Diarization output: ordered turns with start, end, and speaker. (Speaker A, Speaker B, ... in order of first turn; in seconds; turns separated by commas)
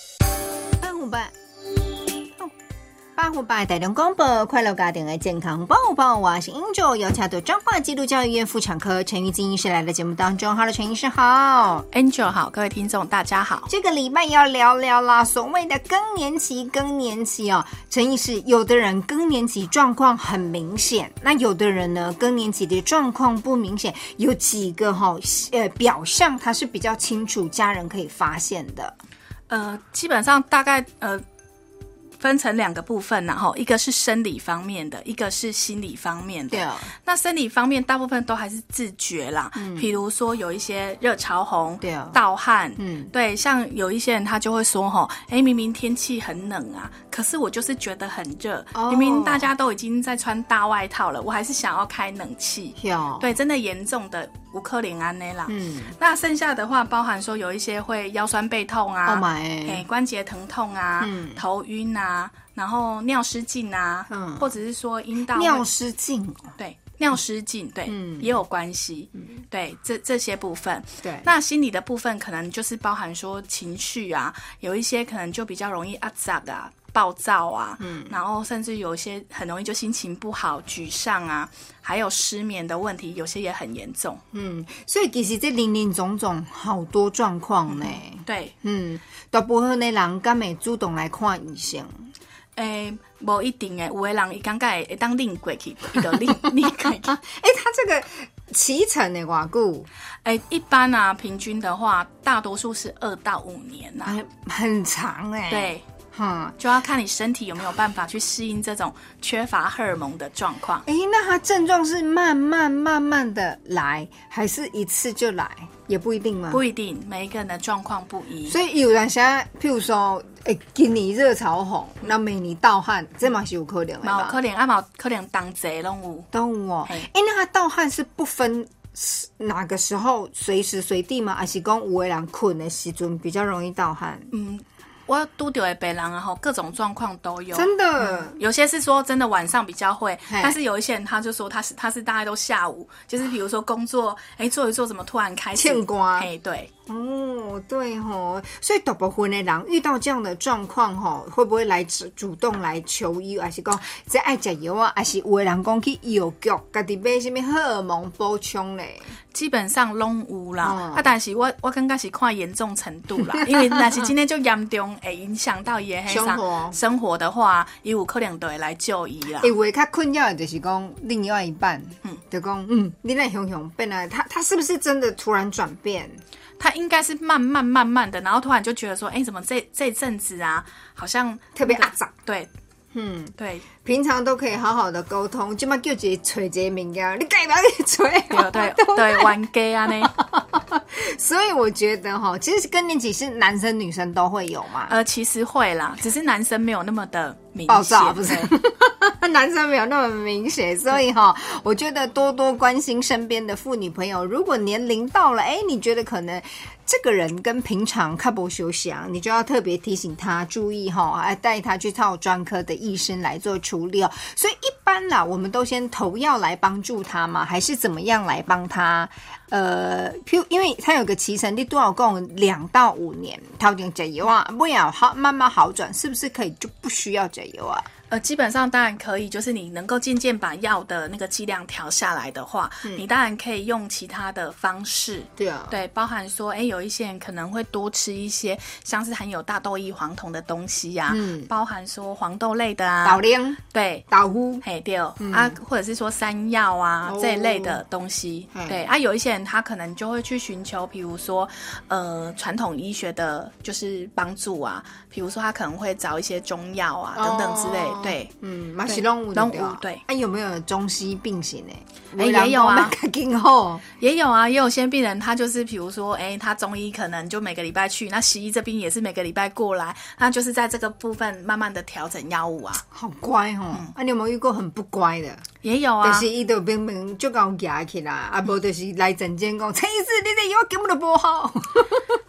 Speaker A: 0.8-1.3, Speaker A: 3.2-11.9, Speaker B: 11.9-13.7, Speaker A: 13.7-28.9, Speaker B: 29.5-31.2, Speaker B: 32.2-65.7, Speaker A: 36.5-36.9, Speaker A: 39.6-39.9, Speaker A: 41.8-42.2, Speaker A: 42.8-43.1, Speaker A: 48.7-49.5, Speaker A: 52.8-53.3, Speaker A: 55.5-56.0, Speaker A: 59.0-59.9, Speaker A: 61.0-61.4, Speaker A: 64.1-64.6, Speaker A: 65.3-66.6, Speaker B: 66.6-84.2, Speaker A: 67.9-68.4, Speaker A: 71.0-71.3, Speaker A: 77.8-78.2, Speaker A: 84.3-91.9, Speaker B: 87.7-88.5, Speaker B: 92.6-97.2, Speaker A: 96.2-99.9, Speaker B: 100.2-104.2, Speaker A: 104.0-106.6, Speaker B: 105.5-105.8, Speaker B: 106.6-110.8, Speaker A: 110.8-116.6, Speaker B: 116.5-118.6, Speaker A: 118.5-124.4, Speaker B: 124.0-126.3, Speaker A: 126.3-134.3, Speaker B: 134.3-146.7, Speaker A: 137.5-138.4, Speaker A: 140.3-140.6, Speaker A: 145.5-146.3, Speaker A: 146.9-159.1, Speaker B: 159.3-169.5, Speaker A: 160.6-161.1, Speaker A: 166.1-166.8, Speaker A: 169.4-176.2, Speaker B: 176.6-182.5, Speaker A: 181.5-182.1, Speaker A: 182.9-195.0, Speaker B: 183.4-183.7, Speaker B: 188.3-190.2, Speaker B: 194.9-198.5, Speaker A: 197.7-227.9, Speaker B: 228.1-243.2, Speaker A: 235.4-235.8, Speaker A: 241.1-241.5, Speaker A: 243.0-244.6, Speaker B: 243.7-244.1, Speaker B: 244.6-258.3, Speaker A: 245.2-245.6, Speaker A: 247.0-247.8, Speaker A: 248.5-248.9, Speaker A: 257.1-263.8, Speaker B: 258.9-260.0, Speaker B: 262.1-263.0, Speaker B: 264.0-272.8, Speaker A: 272.9-275.4, Speaker B: 275.6-276.2, Speaker A: 276.0-282.1